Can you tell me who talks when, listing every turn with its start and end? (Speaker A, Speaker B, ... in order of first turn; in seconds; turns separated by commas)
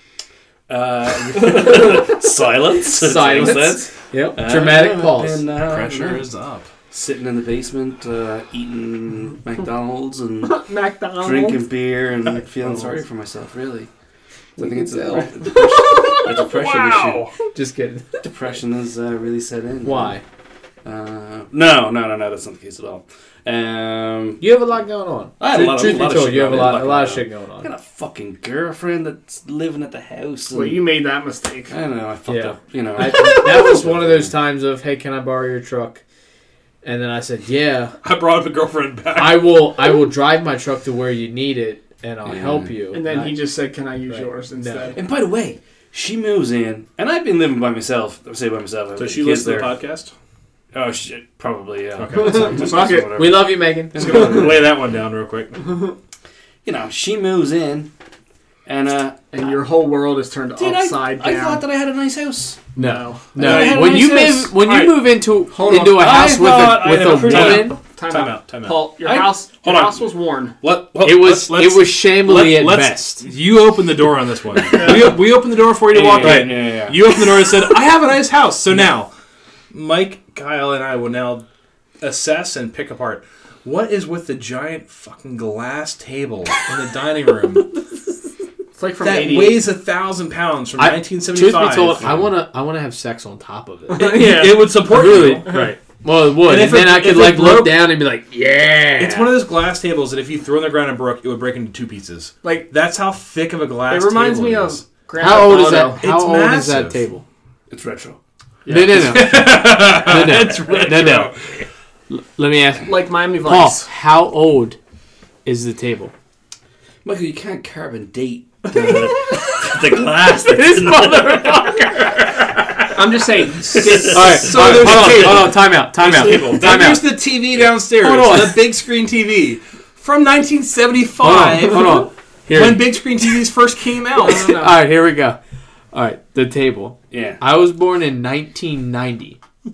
Speaker A: 0.7-6.3, Speaker B: 2.8-5.4, Speaker C: 5.6-6.7, Speaker A: 6.9-10.7, Speaker D: 10.5-11.6, Speaker A: 11.2-13.9, Speaker C: 12.6-13.0, Speaker B: 14.6-16.0, Speaker A: 14.6-17.3, Speaker D: 15.6-15.9, Speaker C: 15.9-17.3, Speaker B: 17.5-18.2, Speaker A: 18.2-20.2, Speaker B: 19.8-20.2, Speaker A: 20.8-24.4, Speaker B: 24.4-27.7, Speaker A: 25.4-30.8, Speaker D: 30.5-31.7, Speaker A: 31.7-34.3, Speaker B: 32.3-36.0, Speaker B: 36.8-38.0, Speaker C: 38.0-39.6, Speaker B: 39.1-43.4, Speaker A: 42.3-42.7, Speaker D: 42.9-45.0, Speaker B: 44.1-44.9, Speaker A: 45.0-49.8, Speaker C: 49.0-50.1, Speaker A: 50.7-54.6, Speaker C: 52.0-52.5, Speaker D: 52.1-53.2, Speaker B: 53.2-54.4, Speaker C: 54.0-55.6, Speaker A: 56.6-57.9, Speaker A: 58.7-59.6, Speaker D: 59.3-61.6, Speaker A: 60.6-62.6, Speaker D: 62.8-64.8, Speaker B: 62.8-67.8, Speaker C: 63.4-64.3, Speaker A: 63.4-64.4, Speaker D: 65.5-66.0, Speaker A: 65.7-67.8, Speaker C: 67.0-70.0, Speaker D: 67.9-70.6, Speaker C: 70.6-79.1, Speaker B: 71.0-73.2, Speaker A: 74.8-75.1, Speaker A: 75.9-77.0, Speaker B: 76.2-76.7, Speaker C: 79.7-81.5, Speaker C: 82.0-87.7, Speaker D: 88.8-89.6, Speaker C: 89.0-92.3, Speaker B: 90.8-99.4, Speaker D: 93.9-94.8, Speaker C: 94.0-95.7, Speaker D: 95.4-95.7, Speaker C: 96.4-97.9, Speaker C: 99.0-104.8, Speaker D: 102.4-102.7, Speaker D: 103.9-106.0, Speaker B: 105.2-107.2, Speaker C: 105.6-107.0, Speaker A: 107.7-108.2, Speaker C: 108.7-111.3, Speaker B: 108.7-111.3, Speaker A: 110.6-111.0, Speaker B: 112.1-114.8, Speaker D: 112.9-113.9, Speaker B: 115.5-116.1, Speaker A: 117.0-121.8, Speaker B: 119.2-122.5, Speaker D: 122.9-125.2, Speaker A: 123.8-124.3, Speaker B: 124.1-127.2, Speaker C: 124.2-134.5, Speaker B: 128.0-128.7, Speaker B: 131.2-133.0, Speaker D: 134.2-134.7, Speaker B: 134.2-135.4, Speaker B: 135.9-139.4, Speaker A: 137.1-137.4